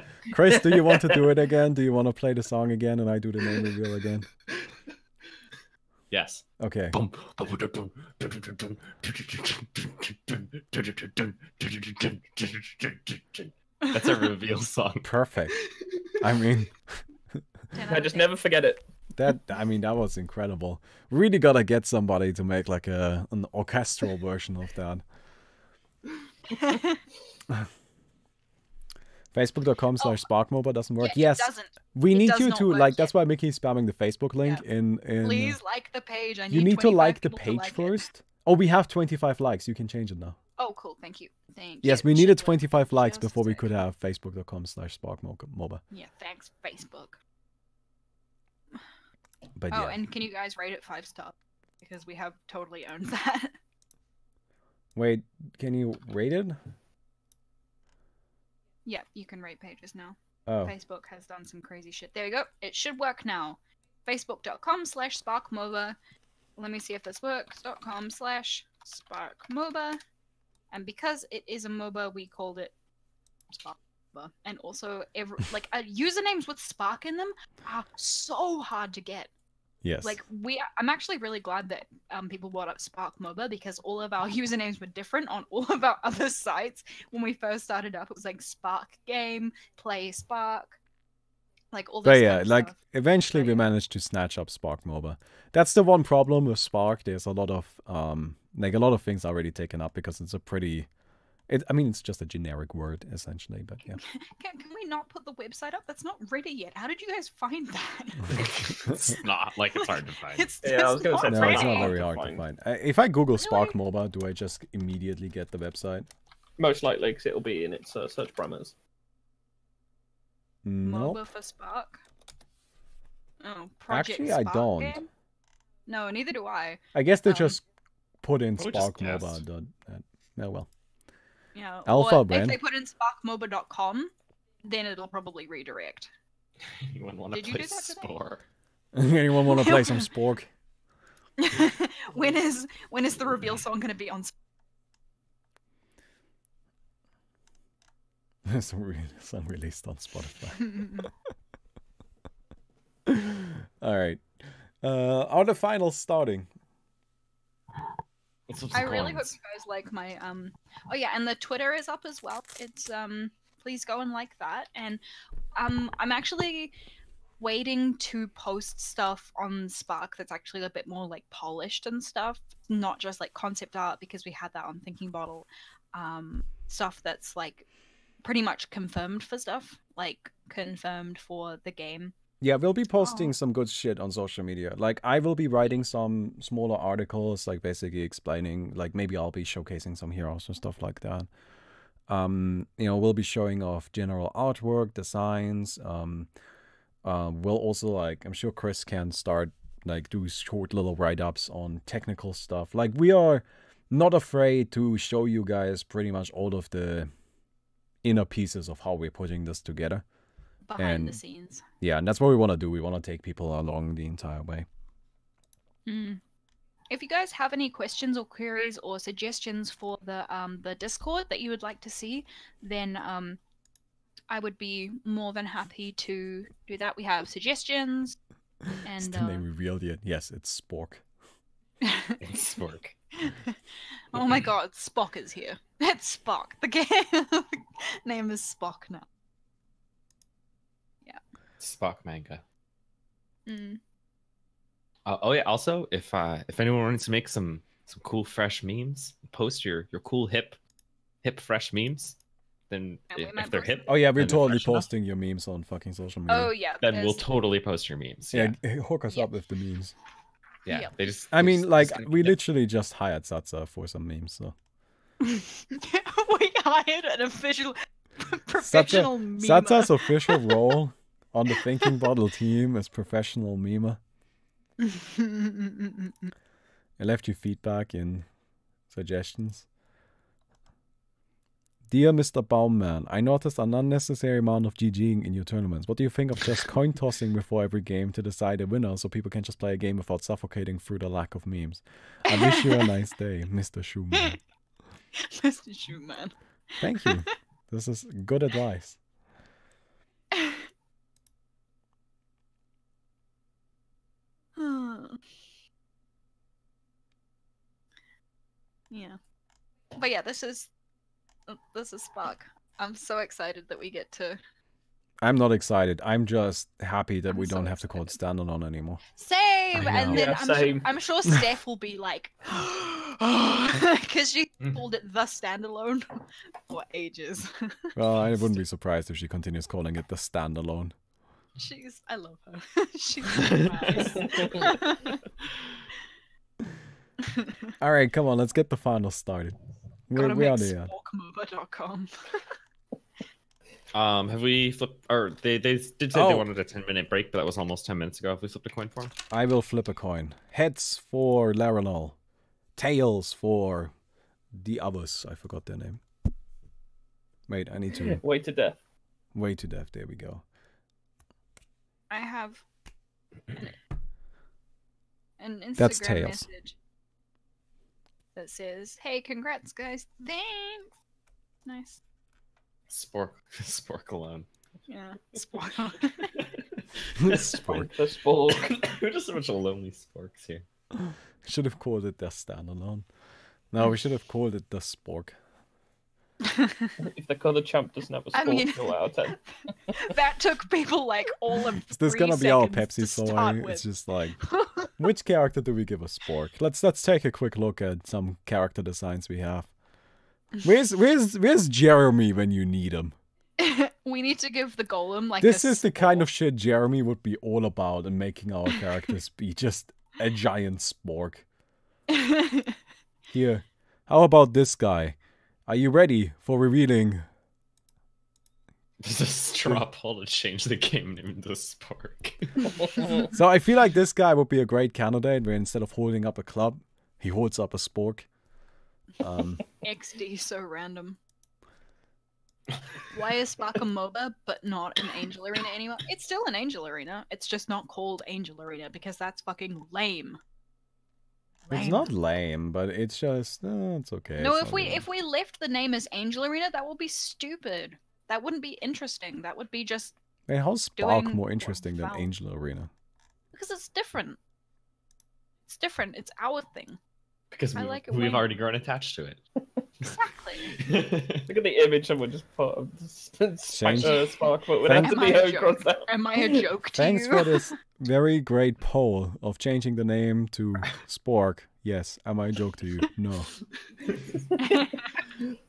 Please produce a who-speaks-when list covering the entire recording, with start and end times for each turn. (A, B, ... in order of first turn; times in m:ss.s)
0:00.2-0:04.3 A
0:06.1-0:15.6 B
0:06.6-0:07.0 A
0:15.0-0:15.6 A
0:16.2-0:17.0 A
0:17.7-0:18.3 C
0:17.9-0:18.8 D
0:19.1-0:25.0 A
0:26.5-0:27.0 C
0:29.3-0:35.6 A
0:31.0-0:33.1 C
0:35.2-0:38.1 C
0:36.5-0:40.4 A
0:40.6-0:43.7 C
0:41.8-0:45.8 A
0:45.9-0:47.2 C
0:49.6-0:50.0 A
0:49.7-0:53.5 C
0:55.0-0:56.6 A
0:58.8-1:06.0 C
1:00.5-1:00.7 A
1:06.6-1:10.0 C
1:10.7-1:12.7 C
1:13.5-1:19.3 C
1:19.8-1:20.2 A
1:20.0-1:30.8 C
1:31.7-1:33.7 C
1:32.0-1:40.9 A
1:41.5-1:44.0 A
1:43.8-1:48.5 C
1:48.3-1:50.5 B
1:48.9-1:49.1 A
1:49.8-1:51.9 C
1:50.6-1:52.4 D
1:51.2-1:56.1 A
1:53.4-1:53.8 C
1:56.6-1:58.7 D
2:00.6-2:01.2 A
2:00.8-2:02.0 C
2:03.4-2:05.0 C
2:03.9-2:05.0 A
2:05.9-2:07.6 C
2:06.9-2:07.6 A
2:08.2-2:10.7 A
2:08.6-2:09.4 B
2:11.5-2:16.1 C
2:11.8-2:12.6 A
2:16.7-2:18.4 B
2:17.3-2:18.1 C
2:18.9-2:20.5 A
2:19.5-2:20.1 C
2:21.4-2:24.3 C
2:28.4-2:31.1 A
2:30.6-2:31.1 C
2:33.0-2:34.2 A
2:34.8-2:36.5 A
2:38.5-2:39.3 B
2:38.7-2:45.0 C
2:45.6-2:46.7 C
2:47.4-2:57.7 C
2:58.2-3:02.1 C
3:02.4-3:11.3 A
3:03.0-3:03.3 C
3:12.1-3:16.3 A
3:17.0-3:27.1 A
3:28.0-3:30.0 A
3:30.6-3:31.6 C
3:30.8-3:31.2 A
3:31.8-3:34.6 A
3:35.8-3:36.2 C
3:36.9-3:43.4 C
3:44.3-3:48.2 C
3:48.8-3:49.4 C
3:49.0-3:51.0 A
3:51.8-3:52.2 C
3:52.2-3:53.0 B
3:53.2-3:53.6 C
3:54.1-3:59.0 C
4:01.6-4:02.4 B
4:03.5-4:03.8 C
4:05.0-4:10.6 B
4:11.2-4:12.2 B
4:12.7-4:14.9 B
4:13.1-4:14.0 C
4:13.9-4:16.5 A
4:16.3-4:17.2 C
4:16.8-4:18.6 B
4:18.3-4:19.9 A
4:20.6-4:22.4 B
4:21.3-4:24.5 A
4:25.2-4:30.7 C
4:28.6-4:34.0 A
4:31.8-4:32.1 C
4:34.8-4:36.1 C
4:37.0-4:38.3 A
4:38.9-4:39.7 A
4:41.9-4:54.4 A
4:52.3-4:52.9 C
4:55.2-4:56.3 C
4:56.8-4:59.0 A
4:56.8-4:57.3 C
5:00.3-5:00.6 C
5:04.6-5:05.2 C
5:08.9-5:09.2 C
5:10.0-5:10.7 C
5:11.5-5:14.4 C
5:15.2-5:19.0 A
5:17.3-5:18.1 C
5:19.1-5:26.1 C
5:19.8-5:20.2 A
5:20.0-5:20.6 B
5:20.0-5:20.9 D
5:26.7-5:28.0 C
5:28.0-5:30.9 A
5:31.6-5:35.2 C
5:33.4-5:34.1 B
5:34.1-5:34.5 D
5:37.2-5:37.6 C
5:37.8-5:39.6 A
5:40.1-5:40.9 A
5:40.1-5:42.4 C
5:43.9-5:49.1 B
5:46.1-5:46.5 A
5:49.3-5:52.2 A
5:52.8-5:53.9 A
5:54.5-5:56.0 A
5:57.5-5:58.2 A
5:58.0-5:58.8 D
5:59.3-6:00.4 A
6:02.1-6:02.6 C
6:05.4-6:06.8 C
6:05.8-6:06.5 A
6:08.4-6:10.9 C
6:11.6-6:12.0 C
6:12.9-6:14.5 B
6:14.9-6:16.3 C
6:17.0-6:17.8 B
6:17.2-6:17.9 A
6:17.5-6:18.8 D
6:18.5-6:20.6 B
6:20.9-6:23.0 A
6:23.7-6:25.4 A
6:26.5-6:26.9 C
6:27.0-6:29.4 D
6:28.3-6:33.8 C
6:31.9-6:39.7 A
6:34.5-6:34.9 C
6:40.6-6:43.2 A
6:43.6-6:46.2 C
6:45.4-6:51.4 A
6:52.1-6:52.8 C
6:53.3-6:57.2 A
6:59.0-7:02.8 B
7:03.3-7:08.3 A
7:09.2-7:09.6 A
7:09.8-7:11.2 C
7:13.1-7:20.4 C
7:21.7-7:22.1 C
7:21.7-7:25.0 A
7:24.4-7:30.1 C
7:30.5-7:32.9 A
7:31.0-7:32.3 C
7:33.5-7:34.4 C
7:35.7-7:37.0 C
7:37.5-7:39.4 B
7:37.8-7:38.5 C
7:40.0-7:40.7 C
7:40.7-7:41.4 B
7:41.4-7:46.6 D
7:43.7-7:44.2 A
7:43.8-7:44.4 B
7:44.8-7:45.5 A
7:45.0-7:47.7 C
7:47.0-7:53.5 A
7:54.6-7:55.2 C